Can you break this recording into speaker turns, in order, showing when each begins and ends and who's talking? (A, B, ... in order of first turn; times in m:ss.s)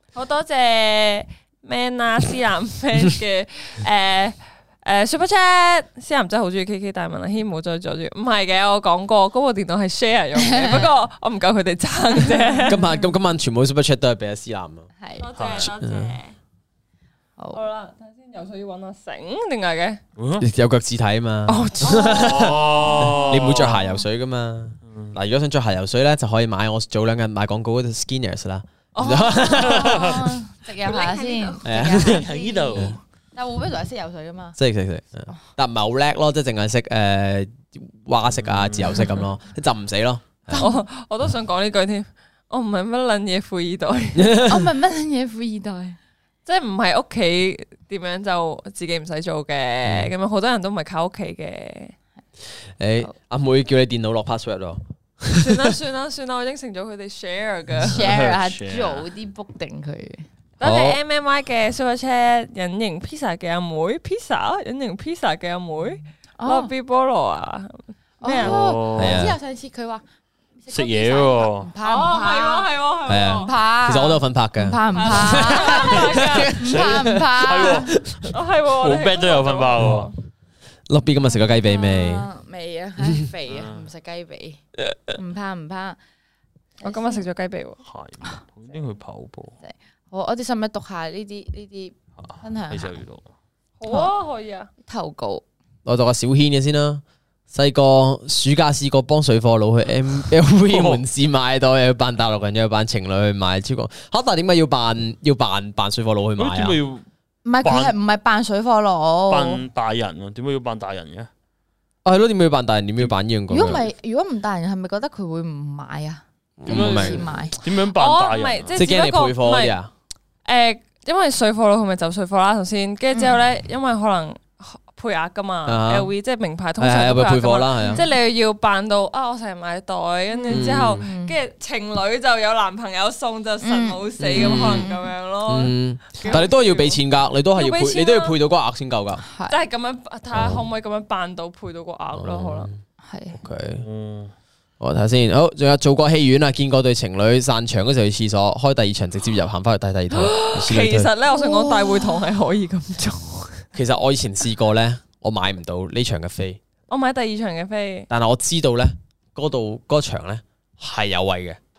0:00.1-0:12.9 A
0:10.3-0:10.9 B
0:12.6-0:14.9 C
0:15.0-0:15.3 B
0:15.2-0:16.4 A
0:15.4-0:15.7 D
0:15.6-0:16.1 C
0:17.5-0:20.0 A
0:20.2-0:20.4 D
0:20.4-0:30.1 C
0:21.5-0:23.2 A
0:21.8-0:23.8 B
0:22.1-0:23.8 D
0:24.8-0:25.2 D
0:29.0-0:34.6 B
0:29.4-0:30.2 A
0:29.6-0:30.3 D
0:30.8-0:32.6 A
0:31.6-0:33.0 C
0:31.9-0:33.0 D
0:34.6-0:40.7 C
0:38.3-0:39.2 D
0:40.5-0:40.8 B
0:40.6-0:44.3 A
0:44.2-0:44.6 C
0:44.4-0:46.0 B
0:46.4-0:51.9 A
0:49.8-0:50.1 C
0:52.8-0:55.7 C
0:55.3-0:58.1 A
0:57.8-1:00.2 B
0:57.9-0:59.1 D
1:00.6-1:08.6 A
1:00.6-1:01.0 C
1:06.4-1:06.7 B
1:08.2-1:10.0 B
1:08.4-1:09.3 D
1:08.9-1:09.4 C
1:10.6-1:17.9 B
1:10.7-1:11.7 D
1:11.8-1:13.5 A
1:13.1-1:17.2 C
1:14.9-1:16.7 A
1:15.9-1:20.1 D
1:17.9-1:18.3 C
1:18.3-1:20.1 A
1:19.8-1:20.1 C
1:20.9-1:22.3 C
1:21.2-1:24.6 B
1:23.5-1:23.8 D
1:24.8-1:25.1 C
1:25.1-1:26.0 B
1:26.8-1:27.8 A
1:26.8-1:27.2 B
1:27.8-1:29.5 D
1:29.6-1:33.0 B
1:32.2-1:33.3 D
1:33.8-1:34.7 A
1:34.8-1:35.4 B
1:35.8-1:46.8 C
1:40.6-1:41.0 D
1:46.4-1:47.0 D
1:47.4-1:49.6 B
1:47.6-1:47.9 D
1:49.3-1:51.3 D
1:52.0-1:53.8 C
1:53.5-1:57.6 B
1:56.6-1:57.2 C
1:56.7-1:58.7 D
1:57.6-1:59.8 A
1:58.7-1:59.9 C
2:00.4-2:17.0 A
2:03.1-2:03.4 B
2:05.7-2:06.1 C
2:06.8-2:08.0 C
2:07.8-2:08.0 B
2:10.3-2:11.3 B
2:10.5-2:11.0 C
2:13.6-2:15.1 B
2:14.2-2:14.9 C
2:15.4-2:19.2 C
2:16.2-2:16.5 B
2:17.5-2:18.4 A
2:19.2-2:19.6 B
2:19.5-2:22.7 A
2:20.3-2:20.6 C
2:22.1-2:22.8 C
2:23.0-2:23.4 B
2:23.3-2:23.8 C
2:23.8-2:24.3 D
2:24.8-2:31.1 C
2:30.1-2:33.6 A
2:31.3-2:32.4 B
2:33.7-2:36.6 C
2:36.9-2:38.1 A
2:38.1-2:41.6 C